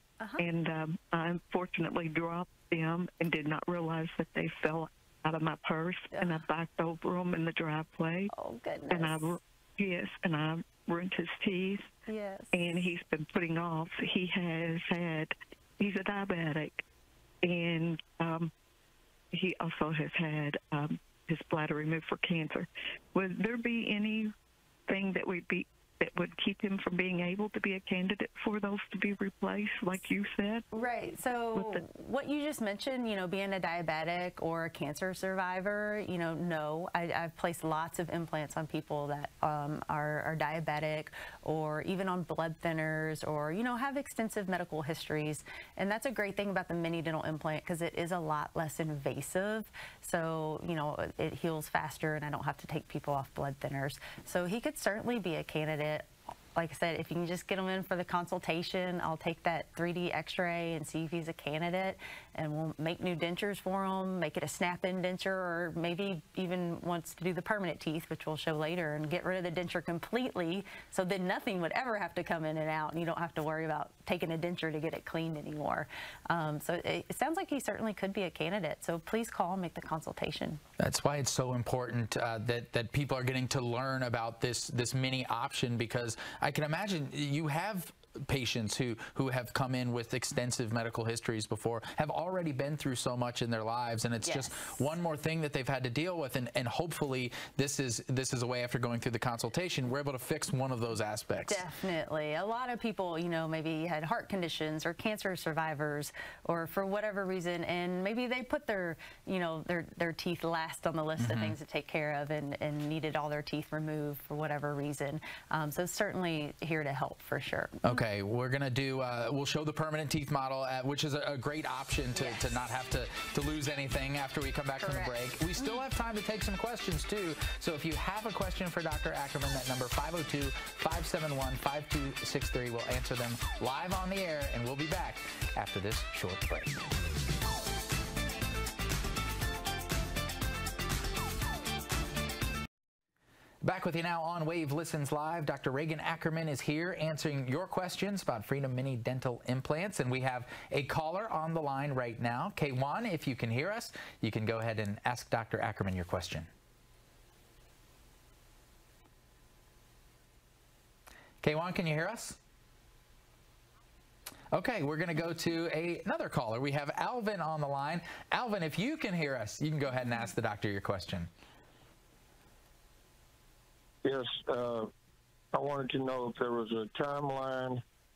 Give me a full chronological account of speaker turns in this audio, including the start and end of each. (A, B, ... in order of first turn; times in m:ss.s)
0:00.4-0:08.3 A
0:08.3-0:09.3 B
0:08.9-0:11.9 A
0:12.1-0:12.6 B
0:12.5-0:16.8 A
0:17.4-0:18.5 A
0:19.3-0:24.3 A
0:24.9-0:30.6 A
0:30.7-1:20.6 B
0:31.6-0:31.8 A
1:20.8-1:41.6 C
1:34.2-1:34.8 B
1:41.4-1:58.0 B
1:51.2-1:51.6 C
1:57.8-2:16.9 C
2:02.2-2:02.6 B
2:04.8-2:05.8 B
2:23.6-2:36.5 C
2:41.4-2:42.4 C
2:44.5-2:51.3 C
2:54.0-2:54.9 D
2:55.5-2:57.8 D